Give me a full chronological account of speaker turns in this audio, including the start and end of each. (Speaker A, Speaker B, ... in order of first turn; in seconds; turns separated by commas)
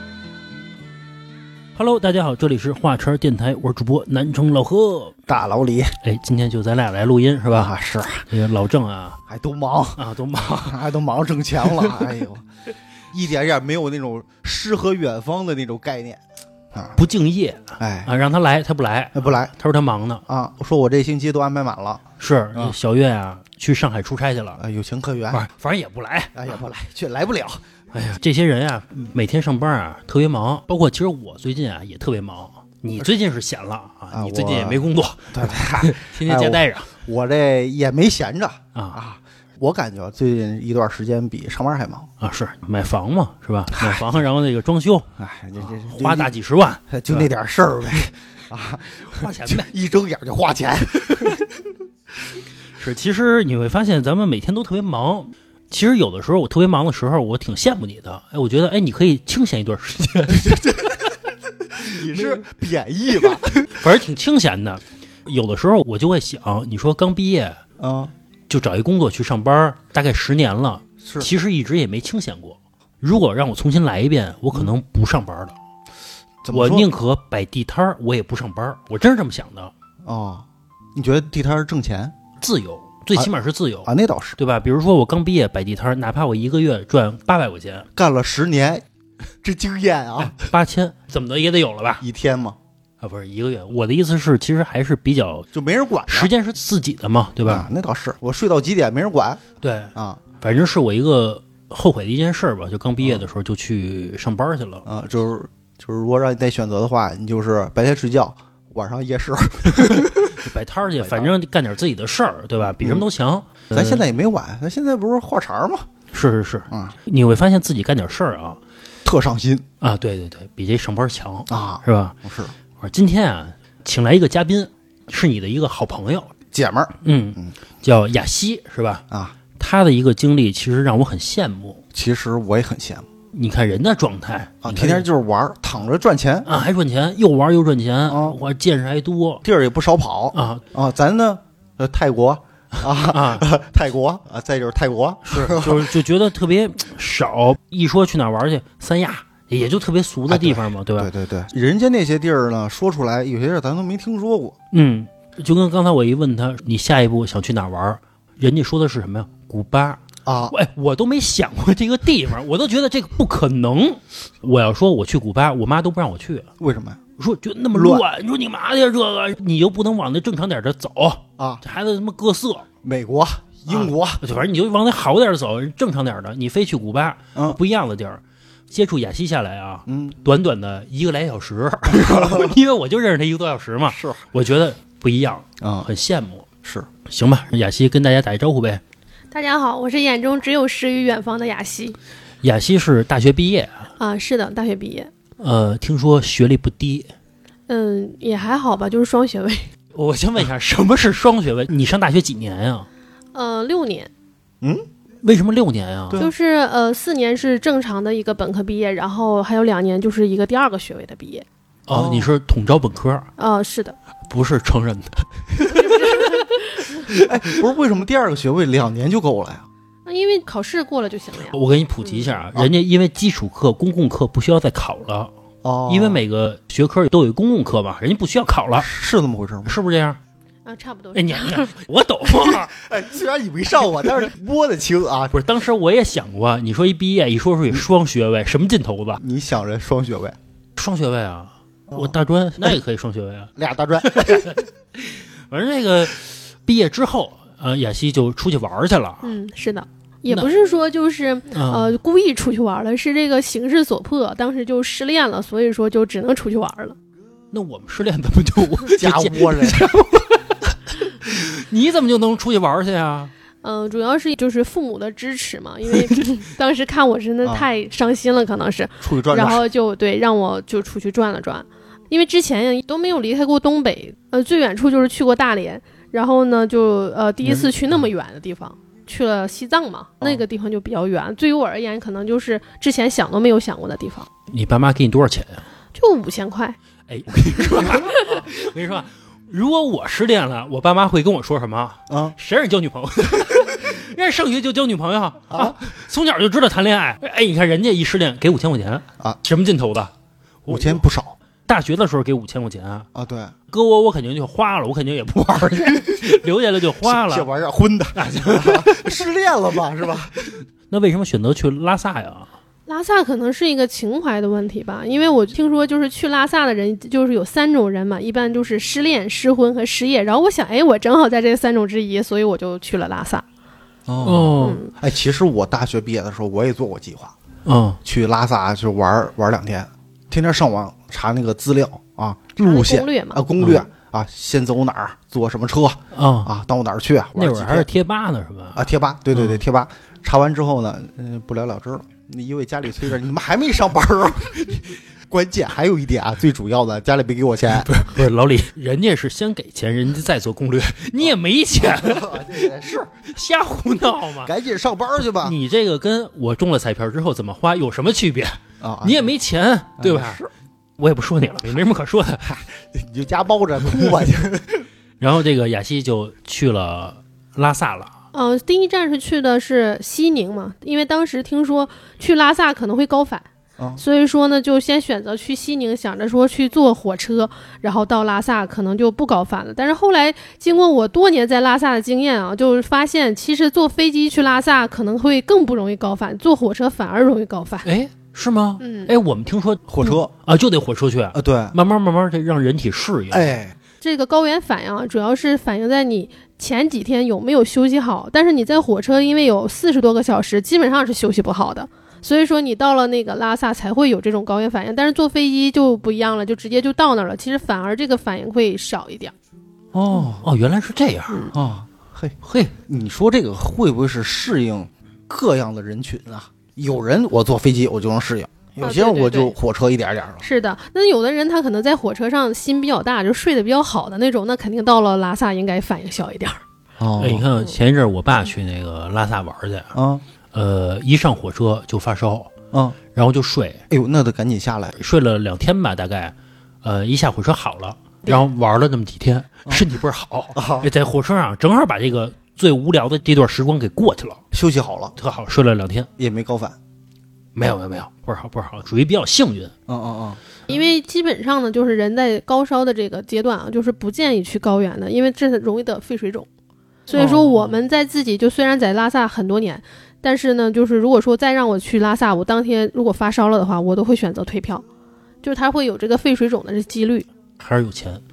Speaker A: 1.7-5.2, Speaker B: 5.3-6.0, Speaker A: 6.0-7.7, Speaker B: 7.5-8.3, Speaker A: 8.3-9.2, Speaker B: 9.3-10.0, Speaker A: 10.0-10.8, Speaker B: 10.6-12.4, Speaker B: 13.1-16.2, Speaker B: 16.7-17.0, Speaker A: 17.0-20.2, Speaker B: 17.8-18.1, Speaker B: 19.1-19.5, Speaker B: 20.3-22.7, Speaker A: 22.2-24.6, Speaker B: 24.6-25.4, Speaker A: 25.3-26.5, Speaker B: 26.3-27.6, Speaker A: 27.9-36.9, Speaker B: 34.1-42.1, Speaker A: 42.2-47.3, Speaker B: 45.2-46.3, Speaker B: 46.9-51.5, Speaker A: 49.1-49.7, Speaker A: 52.8-61.0, Speaker B: 60.3-61.1, Speaker B: 61.7-63.7, Speaker A: 62.1-62.4, Speaker A: 63.7-67.6, Speaker B: 67.8-68.1, Speaker A: 68.5-75.5, Speaker B: 71.0-71.3, Speaker B: 76.4-76.9, Speaker A: 76.5-79.7, Speaker B: 80.0-82.1, Speaker A: 82.4-87.9, Speaker B: 83.8-84.4, Speaker B: 87.9-88.8, Speaker B: 89.4-90.3, Speaker A: 90.3-92.0, Speaker B: 92.0-92.6, Speaker A: 93.0-95.5, Speaker B: 95.5-96.3, Speaker A: 96.1-97.7, Speaker B: 97.4-99.4, Speaker A: 99.6-104.8, Speaker B: 99.9-100.2, Speaker B: 103.0-103.2, Speaker B: 104.8-111.3, Speaker A: 110.3-114.0, Speaker B: 112.7-113.0, Speaker B: 113.7-115.9, Speaker A: 116.1-118.6, Speaker B: 116.7-117.0, Speaker B: 119.0-119.7, Speaker A: 119.8-122.2, Speaker B: 121.5-122.5, Speaker A: 122.8-126.3, Speaker B: 126.5-127.5, Speaker A: 127.0-129.0, Speaker B: 129.1-129.3, Speaker A: 129.5-131.8, Speaker B: 131.9-133.1, Speaker A: 133.3-135.1, Speaker B: 134.6-136.5, Speaker A: 136.4-139.4, Speaker B: 138.1-138.4, Speaker B: 139.4-146.0, Speaker A: 140.3-140.6, Speaker A: 143.0-143.5, Speaker A: 145.3-151.1, Speaker B: 150.3-154.5, Speaker A: 154.7-166.5, Speaker B: 160.2-160.5, Speaker B: 166.6-167.0, Speaker A: 167.2-172.7, Speaker B: 167.7-168.0, Speaker B: 171.4-171.6, Speaker B: 172.8-174.2, Speaker A: 173.7-186.4, Speaker B: 179.9-180.2, Speaker B: 181.9-182.6, Speaker B: 183.9-184.2, Speaker B: 185.6-185.9, Speaker B: 186.6-186.9, Speaker A: 187.1-188.8, Speaker C: 189.3-192.0, Speaker A: 192.4-193.9, Speaker C: 194.0-195.1, Speaker A: 195.4-197.1, Speaker C: 197.7-199.7, Speaker A: 199.9-202.9, Speaker C: 203.3-204.1, Speaker A: 205.2-206.2, Speaker C: 206.2-211.4, Speaker A: 211.9-213.3, Speaker B: 211.9-212.3, Speaker C: 213.4-213.9, Speaker A: 214.3-217.3, Speaker C: 215.7-217.0, Speaker B: 217.1-219.7, Speaker C: 220.1-221.5, Speaker A: 221.5-225.3, Speaker B: 225.6-226.2, Speaker A: 225.9-228.9, Speaker B: 228.8-229.8, Speaker A: 229.7-230.2, Speaker C: 230.7-231.7, Speaker A: 231.1-232.7, Speaker B: 232.5-235.4, Speaker A: 235.3-239.2, Speaker B: 239.2-240.4, Speaker A: 240.8-249.3, Speaker B: 241.9-242.1, Speaker B: 243.6-244.5, Speaker C: 249.2-257.0, Speaker A: 251.5-251.9, Speaker A: 257.5-263.3, Speaker B: 258.9-259.9, Speaker C: 263.6-284.3, Speaker B: 269.0-269.6, Speaker A: 277.4-277.7, Speaker A: 284.5-285.6, Speaker C: 285.9-286.8, Speaker A: 287.1-300.1, Speaker B: 292.1-292.3, Speaker B: 295.5-295.8, Speaker A: 300.6-301.0, Speaker B: 300.7-301.4, Speaker A: 301.6-303.1, Speaker B: 303.1-303.5, Speaker A: 303.7-307.5, Speaker B: 307.0-310.4, Speaker A: 308.1-309.2, Speaker A: 310.9-312.5, Speaker C: 312.9-323.4, Speaker B: 324.1-327.3, Speaker A: 324.2-324.8, Speaker C: 324.6-324.9, Speaker A: 327.6-328.0, Speaker B: 328.0-337.9, Speaker C: 332.6-333.4, Speaker A: 333.6-333.8, Speaker A: 336.1-336.5, Speaker A: 337.4-338.8, Speaker B: 338.7-348.0, Speaker A: 339.3-339.6, Speaker A: 347.8-354.5, Speaker B: 351.2-353.1, Speaker B: 354.4-355.6, Speaker A: 355.4-360.4, Speaker B: 358.8-359.3, Speaker B: 360.0-360.5, Speaker A: 361.0-362.4, Speaker B: 362.4-364.9, Speaker A: 365.2-368.1, Speaker C: 368.3-387.9, Speaker A: 387.8-393.5, Speaker C: 388.8-389.1, Speaker B: 389.9-390.3, Speaker B: 391.3-391.8, Speaker B: 393.3-393.7, Speaker C: 394.0-409.3, Speaker B: 409.9-410.5, Speaker A: 410.1-411.5, Speaker B: 411.5-412.3, Speaker A: 412.4-412.7, Speaker B: 412.9-420.4, Speaker C: 418.8-419.5, Speaker C: 420.4-426.6, Speaker B: 427.0-427.5, Speaker A: 427.2-429.9, Speaker B: 429.9-430.2, Speaker A: 430.5-432.5, Speaker B: 432.7-433.0, Speaker A: 433.1-433.8, Speaker B: 433.9-434.9, Speaker A: 435.0-444.4, Speaker B: 440.5-440.9, Speaker B: 444.5-445.1, Speaker A: 445.2-446.1, Speaker B: 446.2-446.8, Speaker A: 447.5-449.7, Speaker B: 449.9-450.4, Speaker C: 450.7-456.5, Speaker C: 457.1-464.8, Speaker A: 457.1-457.8, Speaker C: 465.4-467.3, Speaker A: 467.6-468.2